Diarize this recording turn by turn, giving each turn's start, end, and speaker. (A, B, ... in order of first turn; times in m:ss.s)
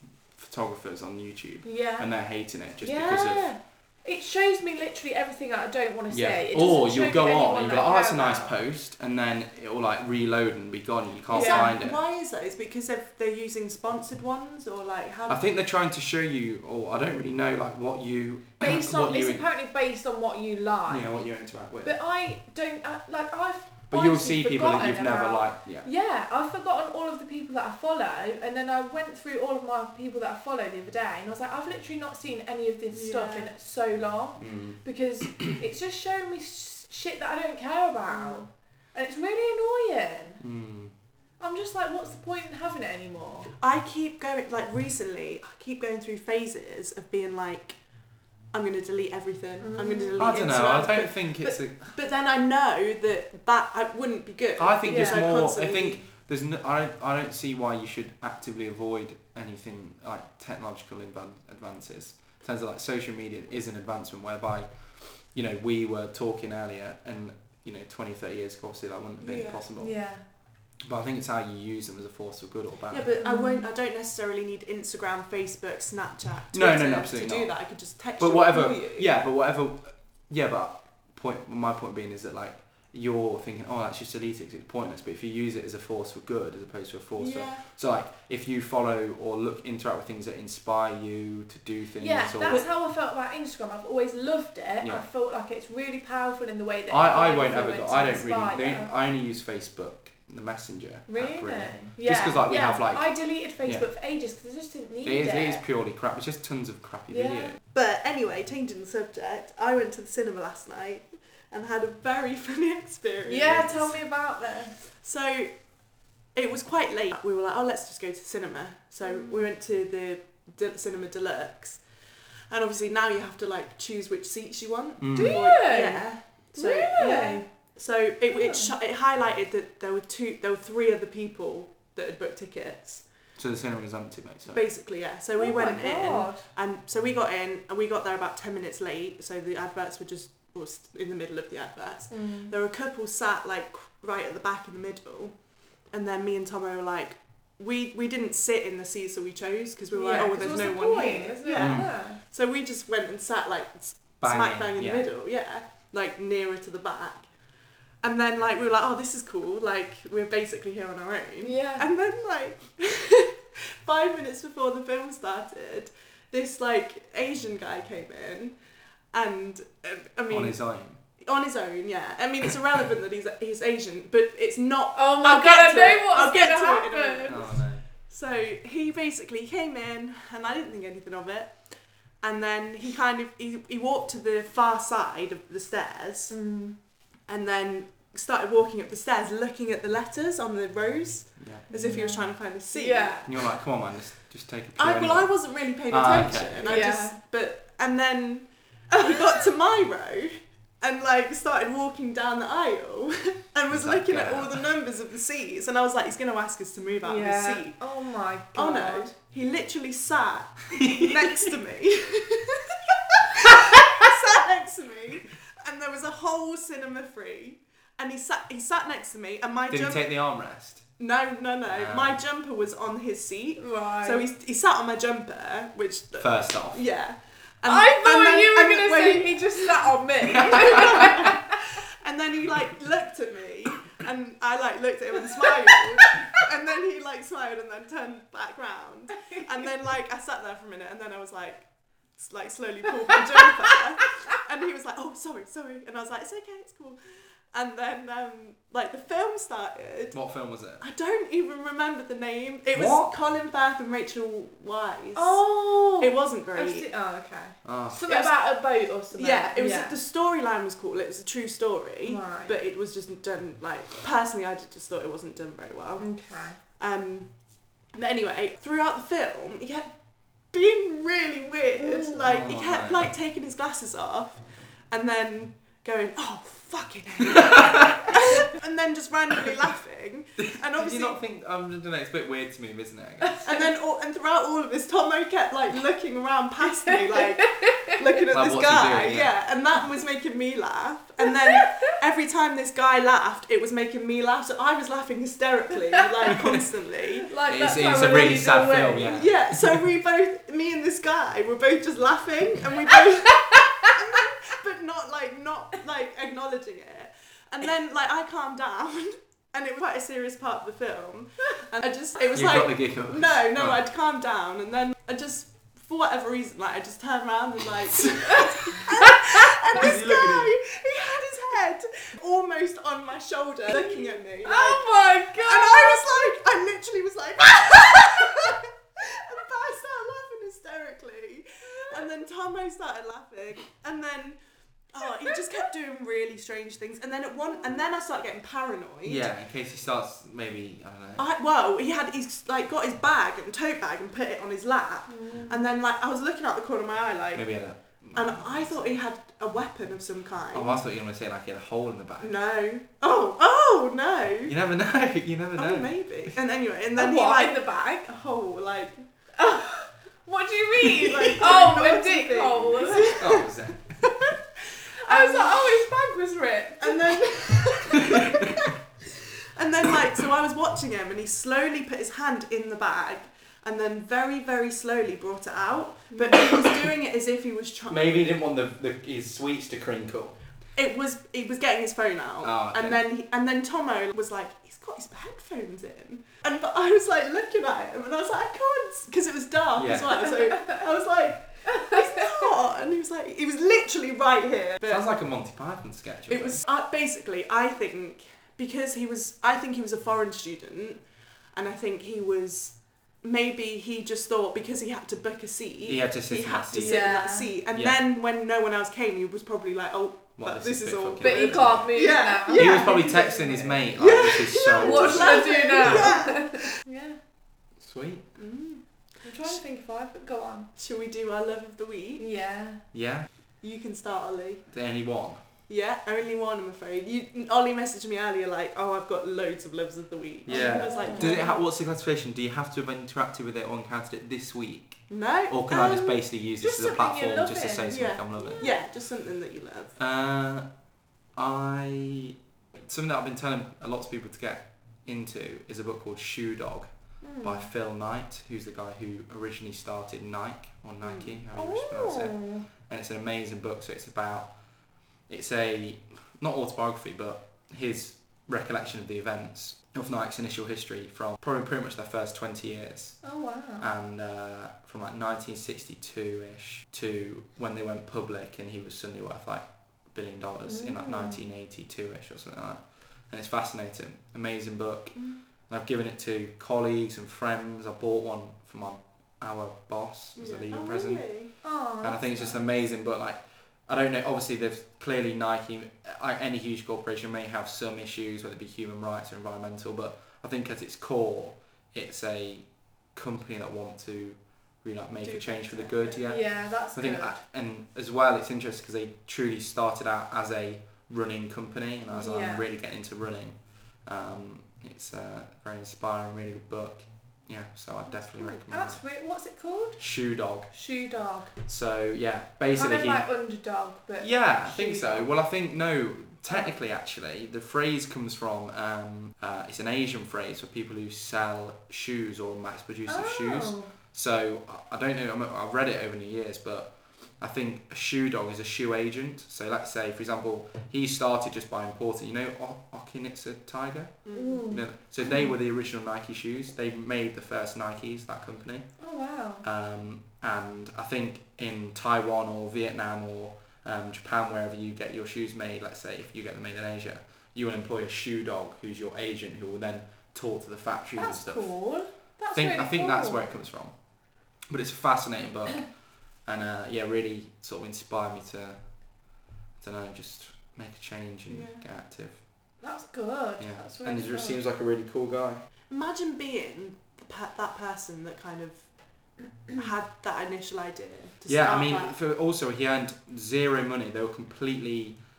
0:00.3-0:03.5 A
0:01.6-0:02.1 B
0:02.8-0:08.5 B
0:06.1-0:12.0 A
0:11.3-0:15.4 C
0:11.3-0:11.8 B
0:15.3-0:19.4 A
0:18.6-0:21.1 B
0:20.9-0:22.0 A
0:21.8-0:40.4 B
0:23.9-0:25.9 A
0:32.9-0:33.5 C
0:34.4-0:34.8 A
0:38.1-0:38.5 C
0:40.4-0:40.9 A
0:41.4-0:43.5 B
0:43.6-0:47.8 C
0:48.5-0:56.0 C
0:49.6-0:50.5 B
0:50.2-0:51.9 A
0:54.6-1:09.9 A
0:54.8-0:55.3 B
1:09.2-1:09.6 C
1:09.8-1:10.2 B
1:10.8-1:13.1 A
1:12.9-1:19.1 C
1:13.2-1:13.6 B
1:16.5-1:17.6 A
1:18.2-1:32.6 A
1:27.2-1:27.6 C
1:32.0-1:38.9 B
1:34.8-1:35.0 A
1:36.9-1:43.1 A
1:41.1-1:45.6 B
1:45.0-1:47.6 A
1:47.1-1:47.6 B
1:47.7-1:54.0 C
1:53.2-1:54.8 B
1:54.8-1:55.5 C
1:56.3-2:01.8 C
1:59.0-1:59.4 B
2:02.5-2:13.0 C
2:05.0-2:05.4 A
2:05.1-2:07.4 B
2:08.3-2:08.7 B
2:13.4-2:14.6 A
2:14.5-2:25.3 C
2:15.4-2:16.4 B
2:22.1-2:22.5 B
2:25.9-2:37.3 C
2:29.9-2:32.2 B
2:31.5-2:31.9 A
2:34.2-2:35.1 A
2:38.0-2:48.6 C
2:41.4-2:41.9 B
2:49.1-2:50.6 C
2:50.3-2:51.0 A
2:51.2-3:06.4 C
2:54.9-2:57.4 B
2:57.2-2:57.8 A
3:06.3-3:06.8 B
3:07.3-3:13.3 C
3:11.4-3:11.7 A
3:11.7-3:13.3 B
3:13.2-3:15.4 A
3:14.8-3:27.8 C
3:15.9-3:16.8 A
3:16.6-3:17.2 B
3:23.7-3:24.6 A
3:27.0-3:29.1 B
3:28.5-3:40.0 C
3:30.7-3:31.3 A
3:39.7-3:40.8 A
3:41.0-4:07.0 C
3:41.7-3:42.2 A
3:43.6-3:44.2 B
3:46.2-3:46.8 A
3:47.6-3:51.6 B
3:50.5-3:51.0 A
4:07.5-4:10.2 C
4:10.1-4:10.8 A
4:10.8-4:16.8 C
4:12.7-4:13.1 A
4:15.2-4:20.0 B
4:17.6-4:18.3 A
4:19.1-4:27.3 C
4:22.0-4:22.5 B
4:26.0-4:26.6 B
4:27.9-4:29.9 C
4:30.5-4:41.2 C
4:31.8-4:32.2 B
4:32.2-4:33.1 A
4:37.6-4:37.8 A
4:40.7-4:43.5 A
4:43.4-4:57.3 C
4:47.5-4:47.9 B
4:48.3-4:49.3 A
4:51.6-4:51.9 B
4:57.3-4:59.2 B
4:57.5-4:59.9 A
4:59.1-5:34.4 C
5:03.4-5:03.9 B
5:12.3-5:13.8 A
5:19.7-5:20.5 A
5:23.7-5:26.3 B
5:34.9-5:39.3 C
5:39.0-5:41.2 A
5:41.2-5:47.5 C
5:45.1-5:45.6 B
5:47.3-5:49.0 A
5:48.1-5:50.8 C
5:50.5-5:52.3 A
5:52.2-5:54.6 C
5:54.4-5:56.0 A
5:55.6-5:59.0 C
5:57.0-5:58.1 B
5:59.4-6:03.2 B
6:00.8-6:03.5 C
6:03.2-6:04.0 A
6:04.0-6:04.3 C
6:05.0-6:05.8 C
6:05.0-6:08.2 B
6:06.8-6:08.7 C
6:09.5-6:18.2 C
6:17.9-6:20.4 A
6:20.8-6:35.1 C
6:22.4-6:23.0 A
6:29.8-6:30.2 A
6:34.8-6:36.6 A
6:36.3-6:41.0 C
6:41.5-6:56.8 C
6:45.8-6:47.1 A
6:46.7-6:47.5 B
6:47.7-6:48.0 A
6:50.4-6:51.9 A
6:51.2-6:53.8 B
6:52.5-6:56.2 A
6:54.7-6:57.2 B
6:57.8-6:58.3 A
6:58.4-6:58.8 C
6:59.2-7:00.7 B
7:00.8-7:02.2 C
7:02.2-7:02.8 B
7:02.9-7:03.3 A
7:03.6-7:04.6 C
7:04.7-7:05.4 A
7:05.7-7:11.5 C
7:10.4-7:18.6 A
7:10.5-7:11.6 B
7:15.1-7:15.7 C
7:15.7-7:18.8 B
7:17.9-7:19.9 C
7:20.0-7:20.6 A
7:21.3-7:26.9 A
7:27.2-7:27.7 B
7:27.4-7:34.5 A
7:31.0-7:31.3 C
7:31.6-7:32.6 B
7:35.3-7:43.2 A
7:43.2-7:43.9 B
7:43.8-8:29.0 A
7:50.7-7:51.4 B
7:55.2-7:55.4 C
8:00.4-8:01.6 C
8:01.6-8:02.5 B
8:15.2-8:16.2 C
8:16.2-8:17.4 B
8:22.1-8:22.6 B
8:28.4-8:30.0 B
8:30.0-8:30.7 A
8:30.7-8:31.6 B
8:31.6-8:33.2 A
8:32.7-8:35.3 B
8:34.2-8:58.9 A
8:43.1-8:43.9 B
8:54.2-8:54.7 C
8:54.3-8:55.5 B
8:59.0-8:59.6 B
8:59.6-9:11.7 A
9:11.2-9:13.5 B
9:12.5-9:13.9 A
9:14.7-9:15.9 A
9:16.4-9:18.8 A
9:19.8-9:22.4 A
9:21.5-9:21.8 C
9:22.8-9:24.6 B
9:23.6-9:25.6 A
9:25.9-9:28.8 C
9:29.7-9:32.2 C
9:31.5-9:35.2 A